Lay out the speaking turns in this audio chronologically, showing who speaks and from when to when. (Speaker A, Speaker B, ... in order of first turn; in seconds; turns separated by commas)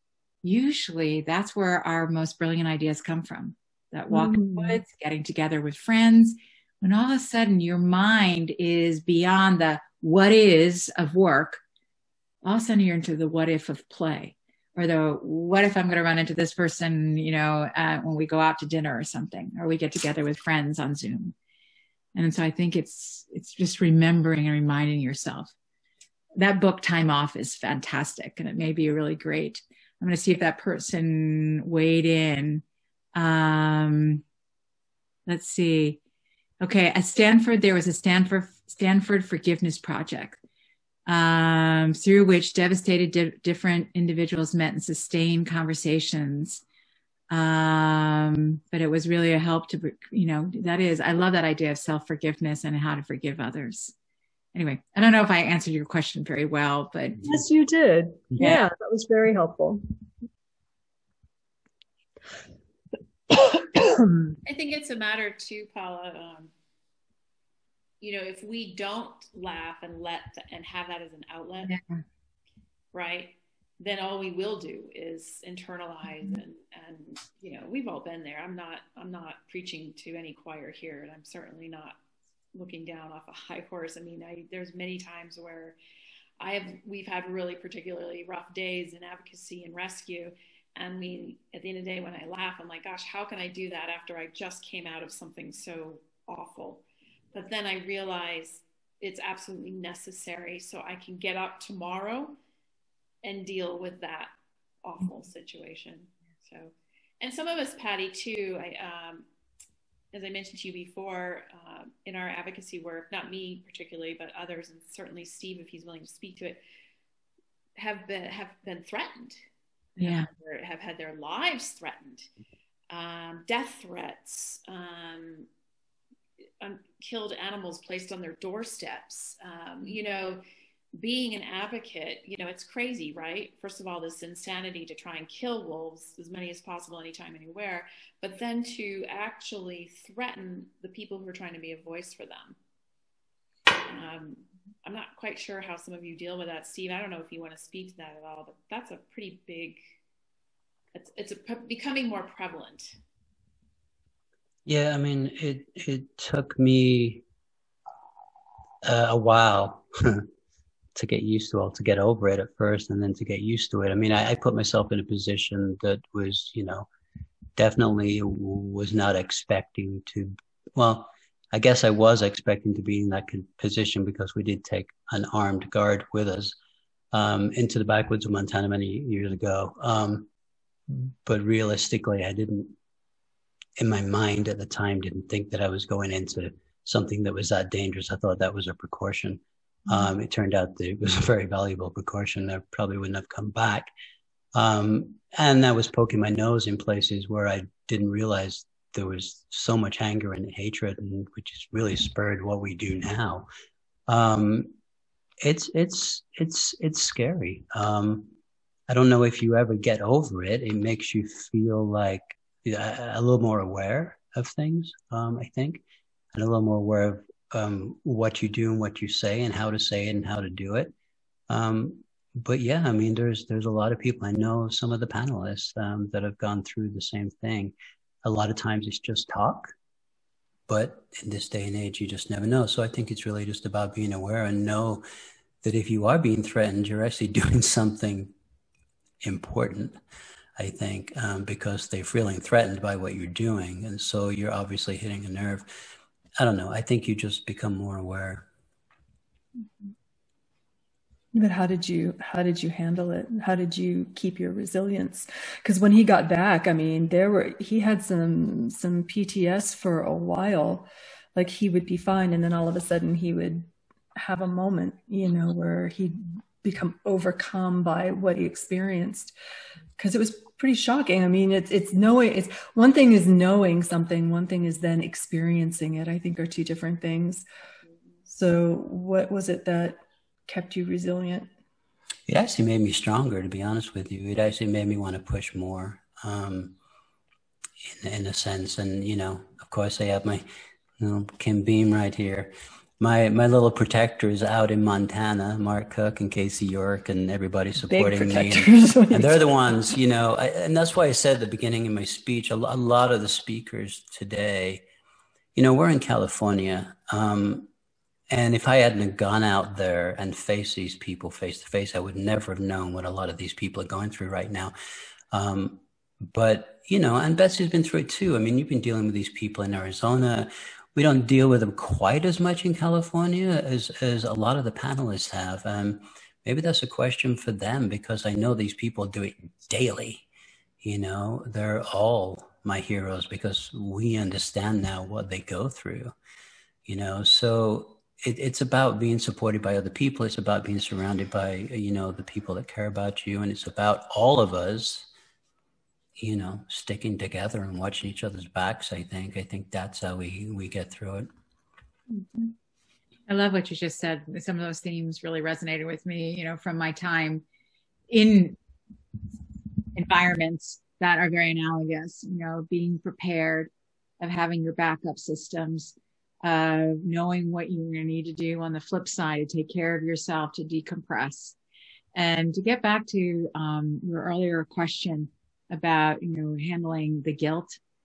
Speaker A: 0.4-11.6, Speaker B: 4.1-4.8, Speaker A: 12.4-21.3, Speaker A: 22.1-25.5, Speaker A: 26.4-34.2, Speaker A: 35.3-36.0, Speaker A: 36.6-40.4, Speaker A: 41.0-46.6, Speaker A: 47.3-53.9, Speaker A: 54.5-57.2, Speaker B: 57.2-59.8, Speaker A: 58.4-58.6, Speaker B: 63.3-64.3, Speaker C: 64.5-66.5, Speaker C: 68.0-71.8, Speaker C: 72.9-82.0, Speaker C: 82.5-85.8, Speaker C: 86.4-96.8, Speaker C: 97.3-102.4, Speaker C: 103.2-109.2, Speaker C: 110.1-116.6, Speaker C: 117.8-119.4, Speaker A: 120.0-120.3, Speaker C: 120.0-122.3, Speaker C: 122.9-125.5, Speaker C: 126.6-130.4, Speaker C: 131.0-142.6, Speaker C: 143.8-149.8, Speaker C: 150.9-153.0, Speaker D: 154.7-157.2, Speaker D: 158.8-160.3, Speaker D: 160.9-166.9, Speaker D: 167.6-176.5, Speaker D: 177.1-180.3, Speaker D: 180.9-182.8, Speaker D: 183.8-193.9, Speaker D: 194.5-203.5, Speaker D: 204.1-204.7, Speaker D: 205.4-208.3, Speaker D: 208.9-215.8, Speaker D: 216.3-220.9, Speaker D: 221.5-229.7, Speaker D: 230.7-235.0, Speaker D: 235.6-238.3, Speaker D: 239.2-240.0, Speaker D: 240.6-245.7, Speaker D: 246.4-248.4, Speaker B: 251.3-269.3, Speaker B: 270.0-277.4, Speaker B: 278.3-281.5, Speaker D: 282.3-286.8, Speaker D: 287.9-290.4, Speaker D: 291.0-304.8, Speaker B: 297.9-299.9, Speaker D: 305.5-307.7, Speaker D: 308.3-314.7, Speaker D: 315.3-330.2, Speaker D: 330.8-336.1, Speaker D: 336.9-345.1, Speaker D: 346.2-351.3, Speaker A: 352.1-352.5, Speaker A: 353.3-357.4, Speaker A: 358.1-358.6, Speaker A: 359.9-371.6, Speaker A: 372.1-377.8